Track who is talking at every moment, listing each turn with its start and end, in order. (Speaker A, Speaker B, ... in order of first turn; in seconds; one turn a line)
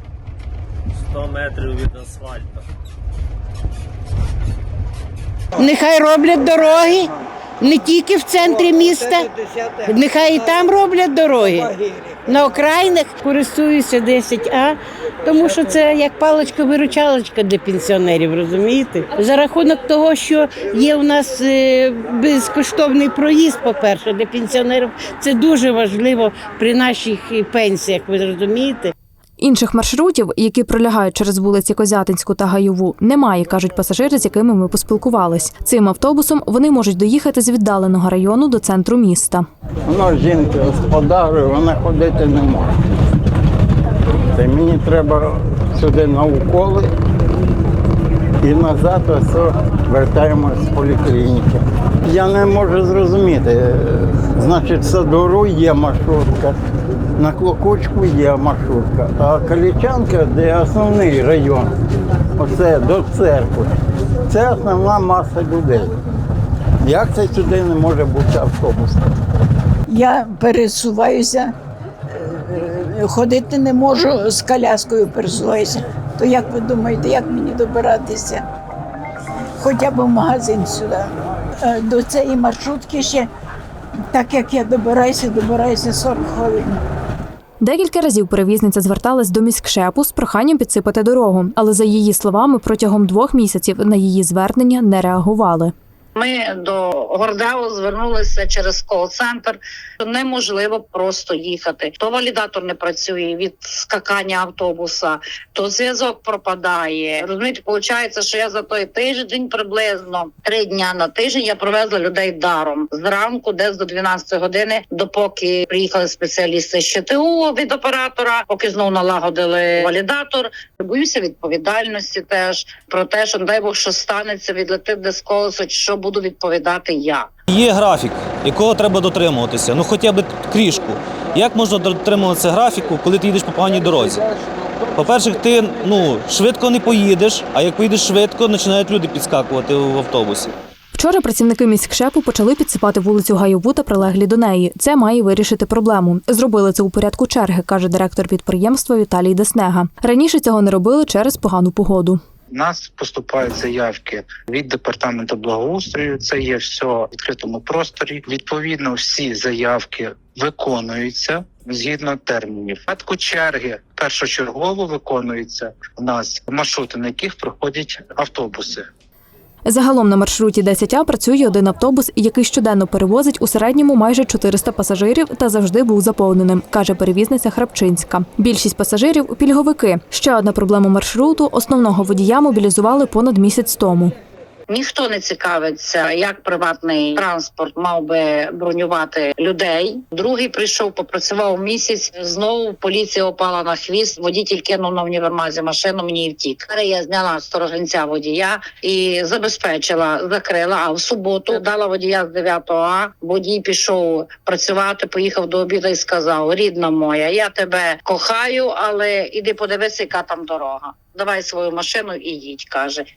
Speaker A: 1.8-2.2
Speaker B: 5.5-28.9
Speaker C: 29.4-39.5
Speaker D: 39.9-42.8
Speaker D: 44.3-46.9
Speaker D: 48.4-56.6
Speaker D: 57.2-61.8
Speaker D: 62.3-63.7
Speaker D: 64.3-65.9
Speaker D: 66.8-69.0
Speaker E: 69.9-71.5
Speaker E: 72.1-78.4
Speaker E: 79.6-81.1
Speaker E: 81.6-83.3
Speaker E: 84.1-86.8
Speaker C: 87.6-95.7
Speaker F: 96.2-127.3
Speaker A: 127.5-134.3
Speaker A: 134.9-140.5
Speaker C: 140.9-152.2
Speaker G: 152.5-168.9
Speaker C: 169.7-184.1
Speaker F: 184.7-213.1